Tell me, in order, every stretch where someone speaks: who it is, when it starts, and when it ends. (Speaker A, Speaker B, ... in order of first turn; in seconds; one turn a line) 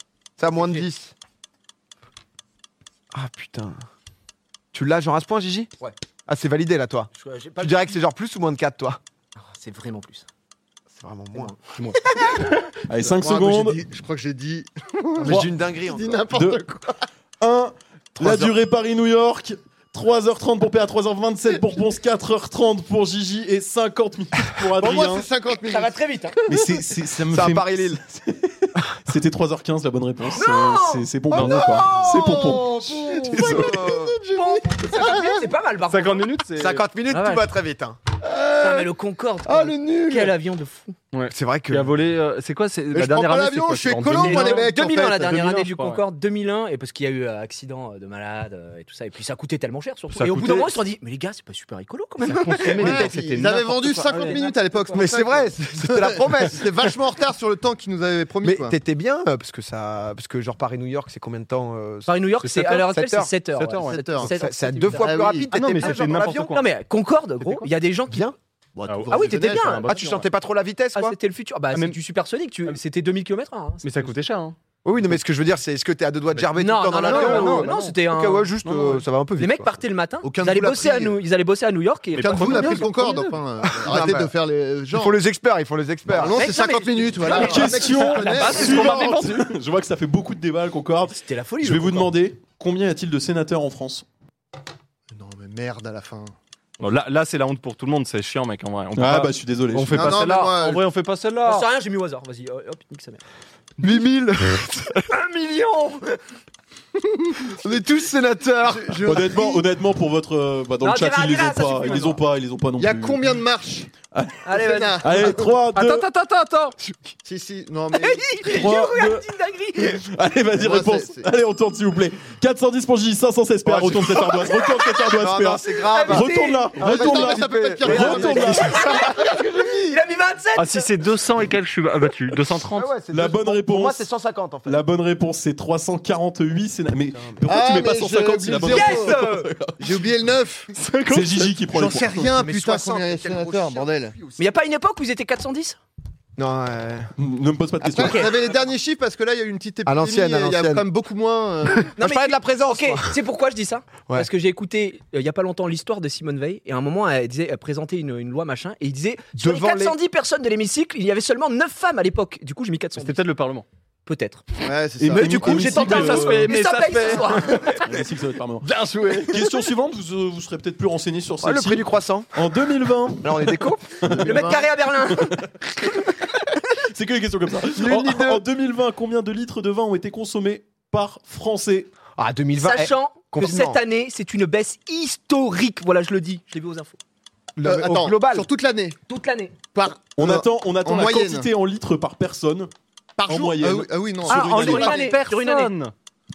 Speaker A: 0.4-1.1
Speaker B: 0.5-0.8
Speaker A: 3.1-3.8
Speaker A: 4.7-5.7
Speaker A: 6.3-9.0
Speaker B: 7.1-8.0
Speaker B: 9.4-10.2
Speaker A: 10.9-11.5
Speaker B: 11.3-12.5
Speaker C: 11.7-12.0
Speaker D: 12.9-13.8
Speaker E: 13.1-17.0
Speaker A: 15.2-16.2
Speaker D: 16.3-16.6
Speaker D: 17.4-25.3
Speaker A: 18.2-18.5
Speaker E: 24.8-26.9
Speaker B: 25.7-26.4
Speaker D: 26.5-33.9
Speaker A: 27.3-28.0
Speaker B: 30.3-31.1
Speaker C: 31.3-31.9
Speaker E: 31.3-35.5
Speaker A: 31.4-34.2
Speaker B: 34.3-36.3
Speaker C: 35.9-36.8
Speaker A: 36.6-38.0
Speaker B: 37.1-37.5
Speaker E: 38.2-38.9
Speaker B: 38.6-41.0
Speaker E: 39.4-40.3
Speaker C: 41.1-44.7
Speaker A: 41.3-41.9
Speaker E: 42.9-45.6
Speaker B: 44.1-53.1
Speaker C: 45.3-46.0
Speaker C: 50.1-50.8
Speaker C: 52.2-54.4
Speaker E: 52.7-58.8
Speaker B: 54.0-55.0
Speaker A: 54.9-56.7
Speaker A: 58.4-62.1
Speaker B: 62.1-68.3
Speaker C: 62.4-62.9
Speaker A: 62.8-63.3
Speaker C: 63.5-64.0
Speaker E: 63.8-64.3
Speaker A: 64.2-66.6
Speaker E: 64.9-65.5
Speaker C: 65.5-66.7
Speaker C: 67.4-67.7
Speaker A: 68.1-68.3
Speaker E: 68.7-69.9
Speaker C: 68.9-70.3
Speaker B: 69.1-69.9
Speaker A: 69.9-71.2
Speaker B: 70.9-74.1
Speaker C: 71.7-72.0
Speaker C: 73.8-74.5
Speaker A: 74.8-79.7
Speaker B: 76.6-78.5
Speaker C: 77.1-77.7
Speaker E: 77.1-77.7
Speaker C: 78.6-79.0
Speaker B: 79.4-83.2
Speaker E: 80.2-81.2
Speaker C: 82.2-83.3
Speaker E: 82.2-85.2
Speaker A: 83.6-84.3
Speaker A: 84.9-86.4
Speaker E: 86.1-89.0
Speaker B: 86.3-89.0
Speaker D: 87.3-94.0
Speaker C: 88.0-89.5
Speaker B: 91.0-92.1
Speaker E: 95.1-96.3
Speaker C: 96.8-101.7
Speaker D: 98.9-100.2
Speaker E: 99.9-100.8
Speaker B: 101.4-103.2
Speaker A: 103.8-105.1
Speaker B: 105.1-106.2
Speaker E: 107.2-107.9
Speaker A: 107.6-109.2
Speaker E: 108.6-109.6
Speaker D: 109.0-113.3
Speaker B: 110.8-112.2
Speaker E: 112.8-113.9
Speaker D: 114.1-116.1
Speaker B: 114.4-115.4
Speaker E: 114.5-115.5
Speaker C: 115.7-116.8
Speaker E: 117.2-118.3
Speaker B: 117.9-120.0
Speaker D: 118.5-128.8
Speaker E: 120.5-121.3
Speaker A: 123.7-129.4
Speaker B: 125.9-126.7
Speaker E: 126.8-129.4
Speaker B: 127.9-130.9
Speaker C: 130.6-132.9
Speaker A: 132.7-134.8
Speaker D: 133.1-134.0
Speaker D: 134.7-140.0
Speaker E: 137.4-139.2
Speaker B: 138.7-139.5
Speaker E: 139.8-140.7
Speaker C: 140.7-141.5
Speaker D: 141.1-142.3
Speaker E: 141.7-144.2
Speaker A: 142.4-144.4
Speaker B: 144.4-145.8
Speaker A: 146.4-147.1
Speaker D: 147.2-148.3
Speaker E: 147.8-151.9
Speaker B: 147.9-148.3
Speaker A: 149.8-150.8
Speaker A: 151.8-153.2
Speaker B: 151.9-163.2
Speaker A: 159.4-159.9
Speaker C: 162.9-163.6
Speaker B: 164.1-167.9
Speaker E: 164.6-165.7
Speaker D: 165.0-166.5
Speaker C: 165.5-167.9
Speaker D: 167.5-174.5
Speaker C: 168.6-169.5
Speaker A: 171.4-172.3
Speaker A: 173.2-174.0
Speaker E: 174.0-174.7
Speaker B: 174.2-175.5
Speaker D: 175.1-175.5
Speaker D: 176.8-181.9
Speaker A: 177.7-178.4
Speaker A: 182.2-183.8
Speaker B: 182.6-187.0
Speaker A: 187.6-188.5
Speaker E: 187.6-189.0
Speaker B: 189.1-189.5
Speaker E: 189.7-191.5
Speaker D: 190.2-192.7
Speaker E: 193.2-195.1
Speaker D: 193.2-194.9
Speaker B: 194.3-195.8
Speaker C: 194.3-195.9